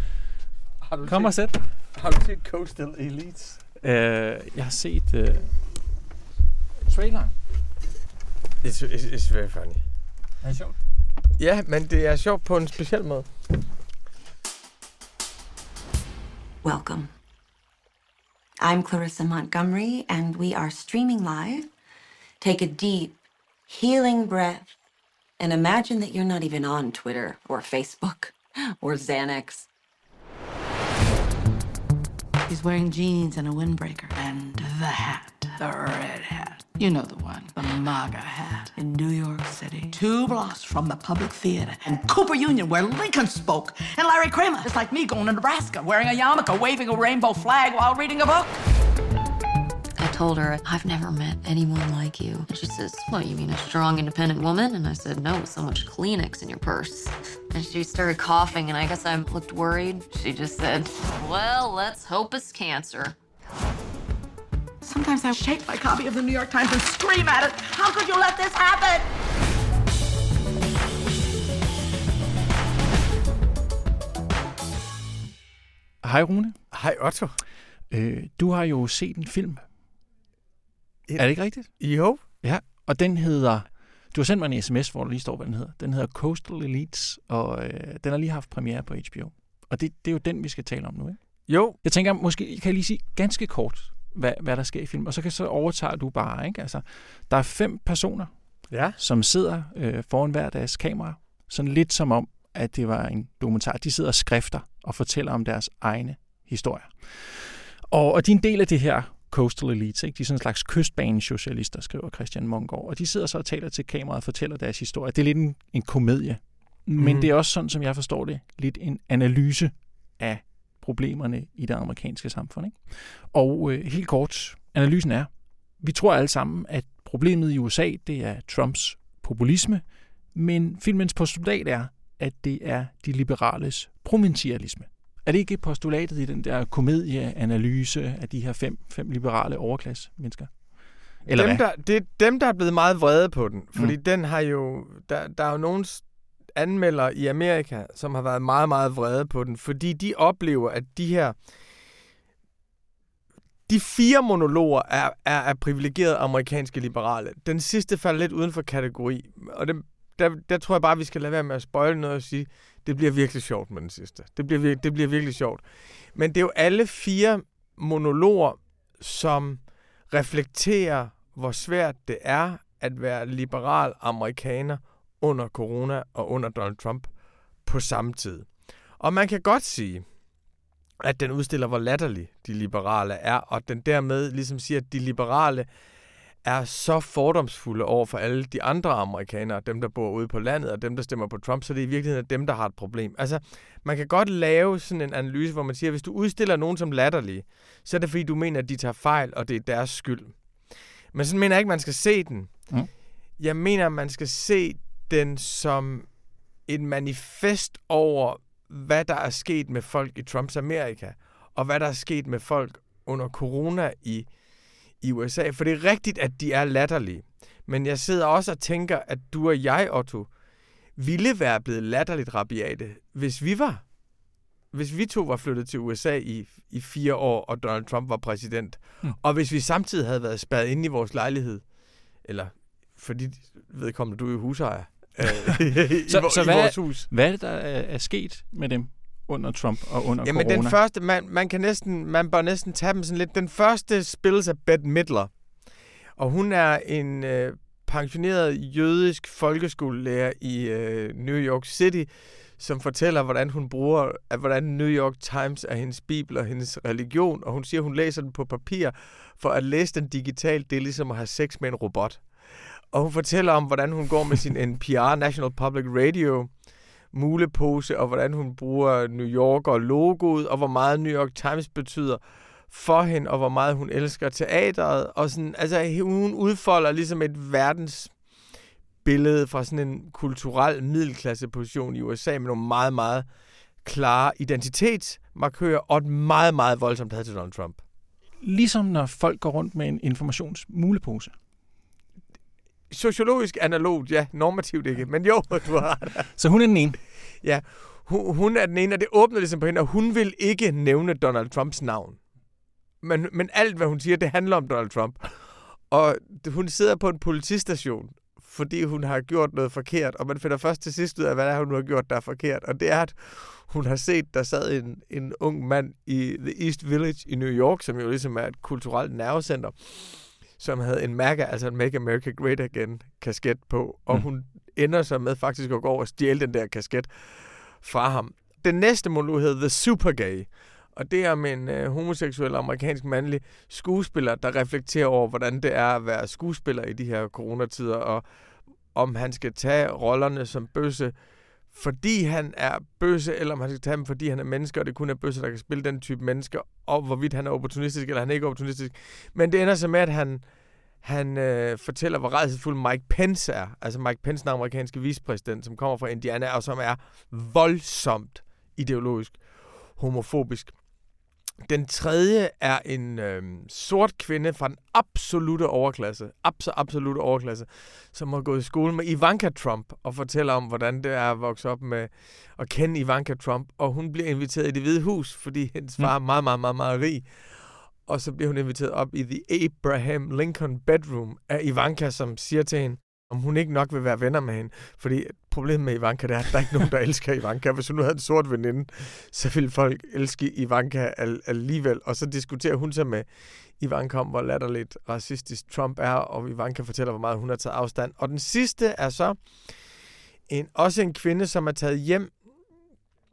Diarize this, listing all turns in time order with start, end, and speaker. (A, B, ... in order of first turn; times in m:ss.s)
0:00.8-0:03.6 A
0:01.0-0:01.6 B
0:03.8-0:05.6 B
0:06.8-0:07.3 B
0:08.6-0:09.8 A
0:10.4-0:10.8 B
0:11.4-0:13.4 A
0:16.6-0:17.1 C
0:18.6-0:21.7 C
0:22.4-0:24.7 C
0:25.4-0:29.7 C
0:32.4-0:48.6 D
0:50.0-1:03.1 E
1:04.8-1:09.1 D
1:16.0-1:16.7 B
1:16.7-1:17.4 A
1:17.9-1:19.6 B
1:21.1-1:22.2 A
1:21.2-2:21.6 B
1:31.5-1:31.8 A
1:38.7-1:39.0 A
1:57.0-1:57.2 A
2:21.4-2:31.6 A
2:33.6-3:00.4 A
3:01.0-3:57.1 A
3:56.0-4:00.8 B
4:00.2-4:47.8 A
4:48.4-4:51.3 B
4:52.9-4:56.4 A
4:56.3-4:57.0 B
4:57.4-5:02.4 A
5:03.0-6:42.8 A